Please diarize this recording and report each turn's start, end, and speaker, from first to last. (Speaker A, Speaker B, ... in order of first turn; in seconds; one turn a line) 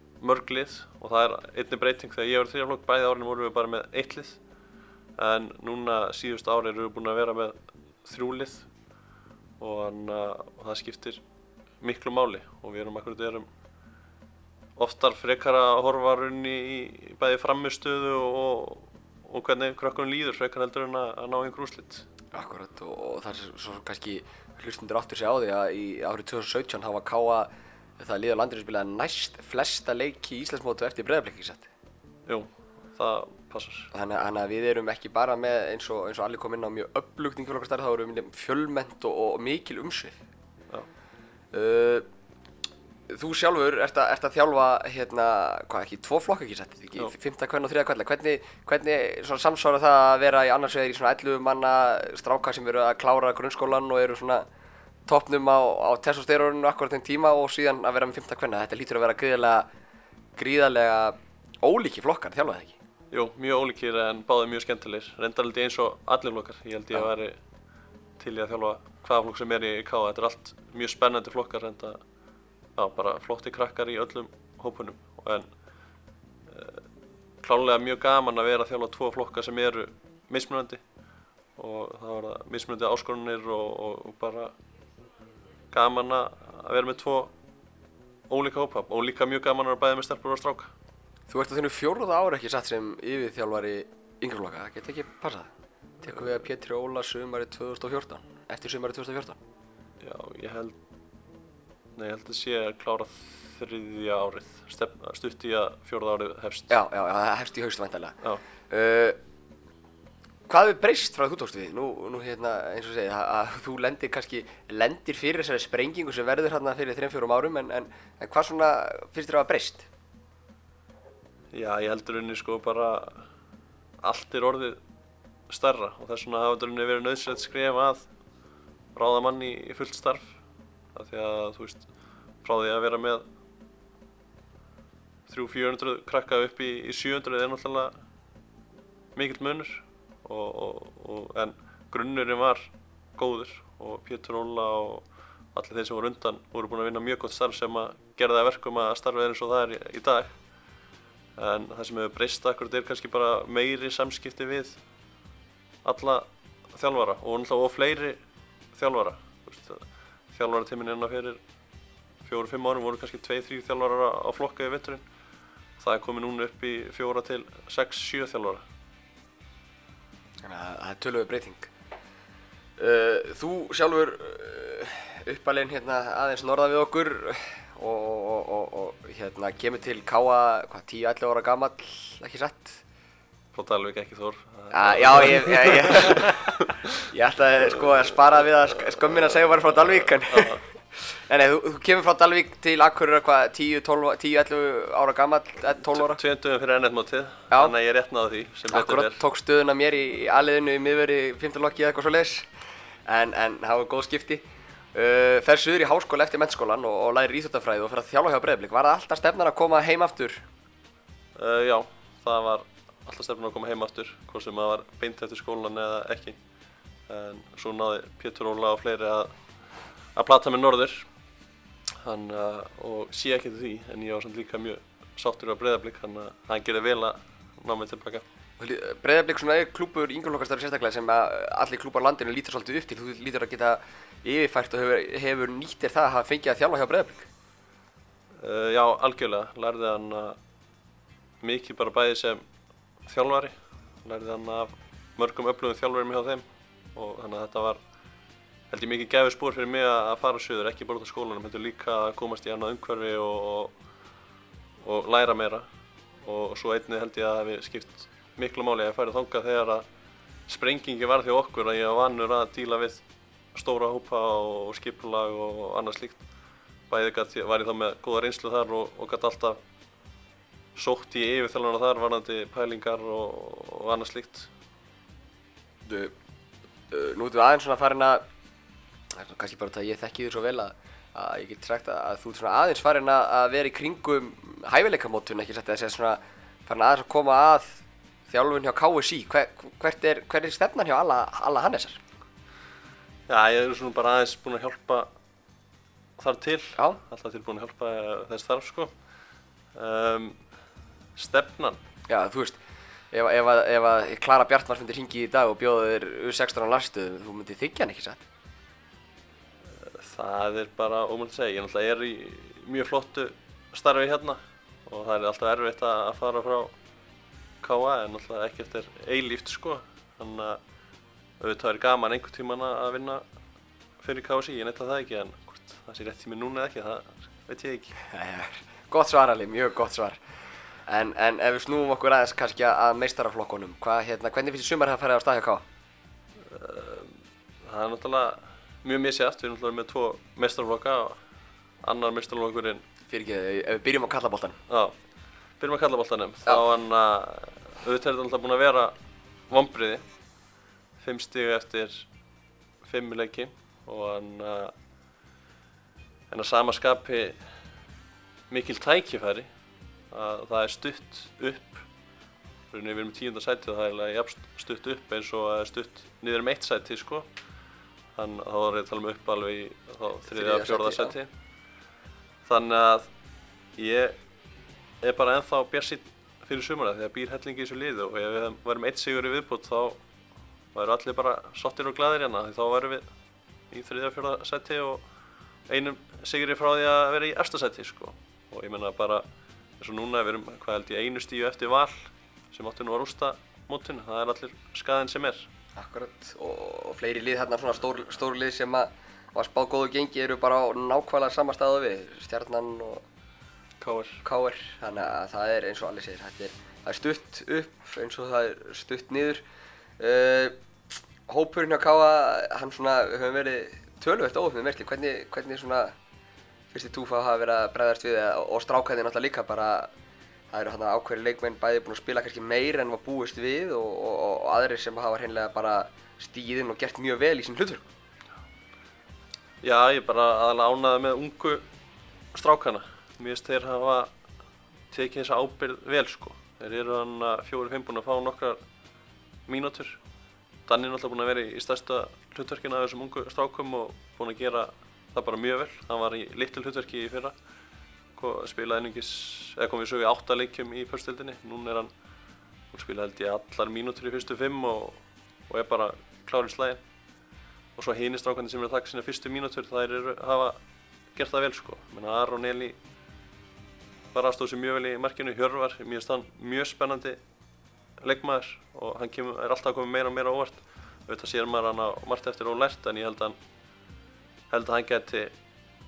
Speaker A: 0.2-4.5
Speaker A: 5.2-8.7
Speaker A: 9.6-11.2
Speaker A: 11.8-13.5
Speaker A: 14.8-22.0
Speaker B: 22.3-31.7
Speaker A: 32.3-33.9
Speaker B: 33.9-40.2
Speaker B: 41.5-42.0
Speaker B: 43.1-54.5
Speaker B: 55.1-59.7
Speaker B: 60.4-62.7
Speaker A: 63.1-67.4
Speaker A: 68.2-72.0
Speaker A: 72.8-75.6
Speaker A: 76.5-76.8
Speaker A: 77.4-80.8
Speaker A: 81.5-84.5
Speaker A: 85.7-87.3
Speaker A: 88.3-90.7
Speaker B: 91.3-95.5
Speaker B: 96.0-99.4
Speaker A: 100.0-100.8
Speaker A: 102.0-106.7
Speaker B: 106.7-109.2
Speaker B: 110.5-119.9
Speaker A: 121.5-123.2
Speaker A: 124.0-124.8
Speaker A: 125.5-128.1
Speaker A: 128.9-130.4
Speaker A: 130.9-131.9
Speaker A: 132.4-133.2
Speaker A: 135.3-138.0
Speaker A: 139.1-150.5
Speaker A: 151.3-154.8
Speaker A: 155.8-158.2
Speaker A: 158.7-161.4
Speaker A: 162.2-165.0
Speaker A: 165.8-168.6
Speaker B: 170.4-171.7
Speaker B: 172.8-182.8
Speaker A: 183.5-186.9
Speaker B: 184.7-186.3
Speaker B: 187.1-196.2
Speaker A: 190.3-190.6
Speaker A: 195.9-199.2
Speaker B: 198.7-202.5
Speaker B: 203.1-210.4
Speaker A: 211.3-216.4
Speaker A: 217.1-221.1
Speaker A: 222.0-228.2
Speaker B: 228.6-237.3
Speaker A: 238.4-240.4
Speaker A: 241.4-242.4
Speaker A: 243.0-247.8
Speaker A: 248.7-253.8
Speaker A: 254.8-259.9
Speaker A: 260.5-266.2
Speaker A: 266.9-269.6
Speaker A: 270.7-274.5
Speaker B: 275.9-276.1
Speaker B: 276.9-278.2
Speaker B: 279.1-292.0
Speaker A: 293.3-295.1
Speaker A: 296.2-299.0
Speaker A: 299.7-300.5
Speaker A: 301.1-301.8
Speaker B: 302.1-302.6
Speaker B: 303.1-308.2
Speaker A: 309.8-316.7
Speaker A: 317.6-320.6
Speaker A: 321.4-323.2
Speaker A: 324.0-327.9
Speaker B: 328.1-330.2
Speaker B: 330.9-335.6
Speaker A: 336.5-341.2
Speaker A: 341.8-342.8
Speaker B: 343.1-344.6
Speaker A: 344.7-345.0
Speaker A: 345.6-348.9
Speaker A: 349.5-350.1
Speaker A: 351.0-352.1
Speaker A: 352.8-354.7
Speaker A: 356.3-357.5
Speaker A: 358.5-359.5
Speaker A: 360.1-361.9
Speaker A: 362.7-367.3
Speaker A: 368.1-371.3
Speaker B: 370.3-371.1
Speaker A: 372.4-373.2
Speaker A: 373.7-374.2
Speaker A: 375.0-380.0
Speaker A: 380.7-383.1
Speaker A: 383.7-385.1
Speaker A: 385.7-389.2
Speaker A: 389.8-395.5
Speaker B: 395.8-403.0
Speaker A: 403.8-404.2
Speaker B: 404.2-409.4
Speaker B: 410.0-410.6
Speaker B: 411.3-415.9
Speaker B: 416.7-419.9
Speaker B: 420.5-427.9
Speaker A: 429.6-431.6
Speaker A: 432.3-434.1
Speaker A: 434.9-438.6
Speaker A: 439.4-440.0
Speaker A: 440.6-447.3
Speaker A: 448.1-451.9
Speaker A: 452.7-456.8
Speaker A: 457.8-460.6
Speaker A: 461.1-462.8
Speaker A: 464.1-467.2
Speaker A: 468.0-473.4
Speaker A: 474.5-475.3